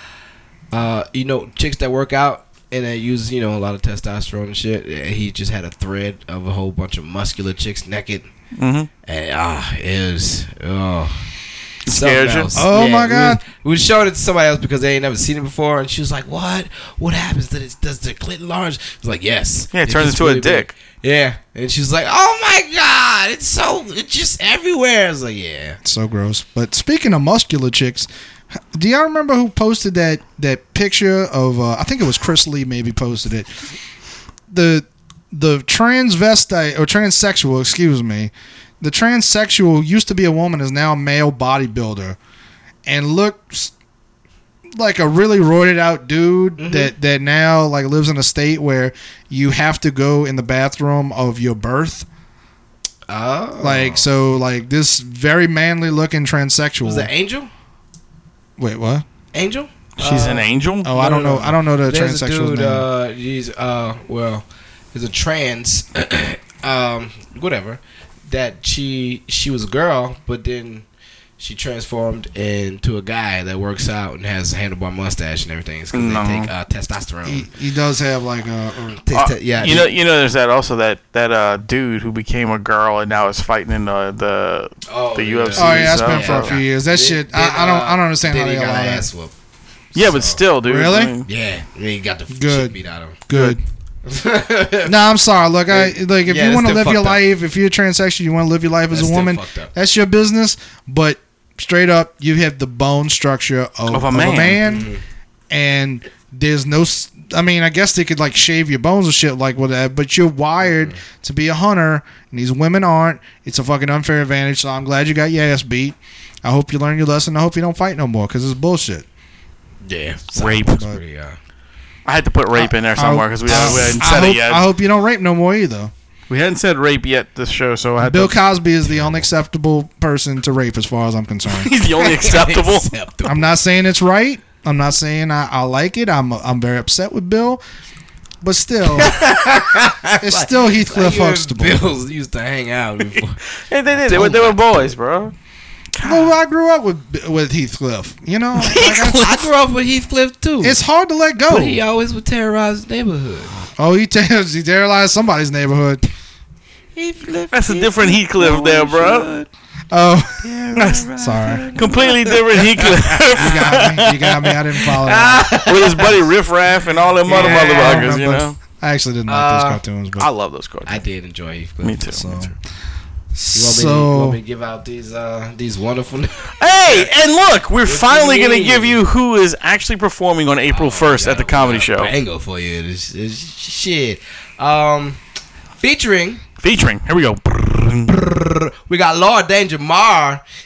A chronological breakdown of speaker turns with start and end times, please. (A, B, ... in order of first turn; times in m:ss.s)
0:00.7-0:08.3 A
0:08.6-0:08.9 B
0:09.0-0:11.3 A
0:11.9-0:12.5 B
0:11.9-0:25.8 A
0:12.6-0:13.4 C
0:19.7-0:20.7 B
0:25.8-0:33.5 C
0:34.5-0:42.2 C
0:42.9-0:43.7 C
0:44.7-0:52.1 C
0:46.6-0:46.9 A
0:53.1-0:54.0 A
0:53.6-0:57.1 C
0:56.8-0:57.5 A
0:58.6-0:59.0 C
0:59.3-1:10.8 A
1:00.0-1:00.9 B
1:00.8-1:02.9 C
1:11.4-1:17.5 A
1:15.9-1:16.5 B
1:17.2-1:19.0 C
1:19.0-1:19.9 A
1:19.1-1:26.6 B
1:24.9-1:29.3 A
1:25.6-1:29.1 C
1:29.9-1:30.4 A
1:29.9-1:31.3 B
1:30.6-1:31.1 C
1:31.2-1:33.3 A
1:32.3-1:32.8 C
1:33.3-1:33.6 C
1:34.0-1:34.9 A
1:34.8-1:44.9 C
1:35.7-1:37.2 A
1:38.9-1:39.7 A
1:43.9-1:44.6 B
1:44.6-1:45.0 A
1:45.5-1:59.0 C
1:50.6-1:51.0 A
1:59.8-2:01.4 A
2:00.4-2:00.8 B
2:00.7-2:01.0 C
2:02.0-2:04.7 B
2:02.5-2:05.9 C
2:03.5-2:04.0 A
2:06.3-2:08.4 B
2:08.0-2:11.7 C
2:08.9-2:09.3 A
2:11.5-2:12.9 B
2:12.0-2:13.6 A
2:13.2-2:17.6 C
2:18.4-2:19.2 C
2:19.0-2:23.4 A
2:20.2-2:21.8 C
2:23.7-2:25.3 B
2:24.0-2:24.9 A
2:26.0-2:26.3 B
2:26.0-2:29.3 C
2:28.6-2:29.4 B
2:28.8-2:30.8 A
2:30.6-2:31.8 C
2:31.5-2:33.6 A
2:33.8-2:36.1 C
2:37.0-2:39.5 A
2:37.5-2:39.3 B
2:39.9-2:41.6 C
2:40.4-2:46.2 A
2:41.7-2:43.9 B
2:43.4-2:45.7 C
2:45.6-2:48.6 B
2:47.3-2:48.1 A
2:47.3-2:50.3 C
2:49.3-2:49.8 A
2:50.2-2:51.0 B
2:50.9-2:52.5 A
2:51.8-2:52.5 B
2:53.3-2:54.4 C
2:53.5-2:57.1 A
2:56.6-3:02.1 B
2:57.8-2:59.0 A
3:00.7-3:05.2 A
3:05.8-3:06.4 A
3:06.6-3:08.1 B
3:08.1-3:10.4 A